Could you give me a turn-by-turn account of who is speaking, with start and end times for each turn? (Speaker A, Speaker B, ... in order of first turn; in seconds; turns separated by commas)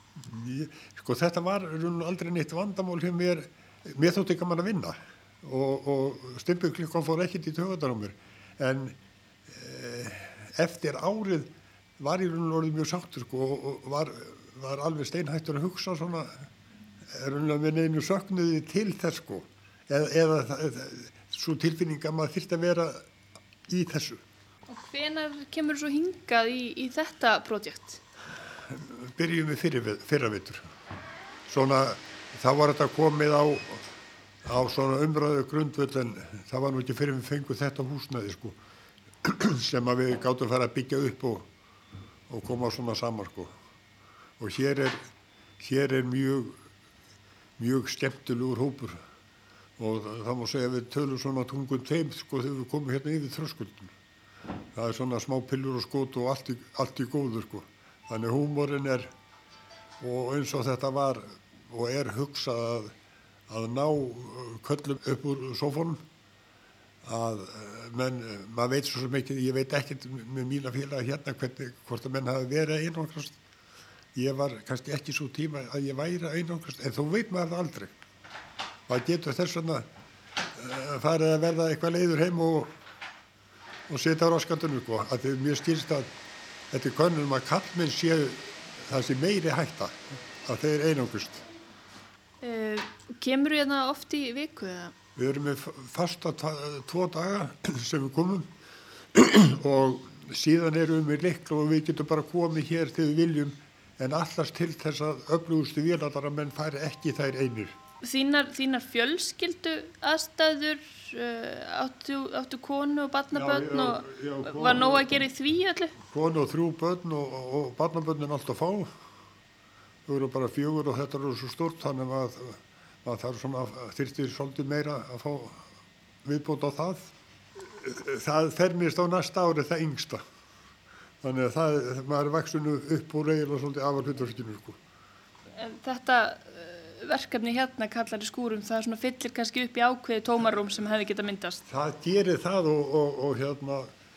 Speaker A: 0.2-8.9, Speaker A: 9.5-16.4, Speaker A: 17.1-23.0, Speaker A: 23.7-24.2, Speaker B: 24.7-28.0, Speaker A: 28.7-30.6, Speaker A: 31.5-33.8, Speaker A: 34.4-38.6, Speaker A: 39.2-41.5, Speaker A: 42.3-43.5, Speaker A: 44.4-45.0, Speaker A: 45.6-46.6, Speaker A: 47.6-49.0, Speaker A: 49.8-53.9, Speaker A: 54.7-59.1, Speaker A: 60.0-62.9, Speaker A: 63.5-66.0, Speaker A: 67.0-73.3, Speaker A: 74.1-77.9, Speaker A: 78.9-79.8, Speaker A: 80.6-82.7, Speaker A: 83.9-86.1, Speaker A: 86.7-91.4, Speaker B: 92.4-94.9, Speaker A: 95.2-98.5, Speaker A: 99.1-107.7, Speaker B: 108.0-115.9, Speaker A: 113.3-115.2, Speaker A: 116.1-118.9, Speaker A: 120.0-125.6, Speaker A: 126.2-127.1, Speaker A: 127.8-130.2, Speaker A: 131.2-134.8, Speaker B: 135.6-141.6, Speaker A: 141.7-143.9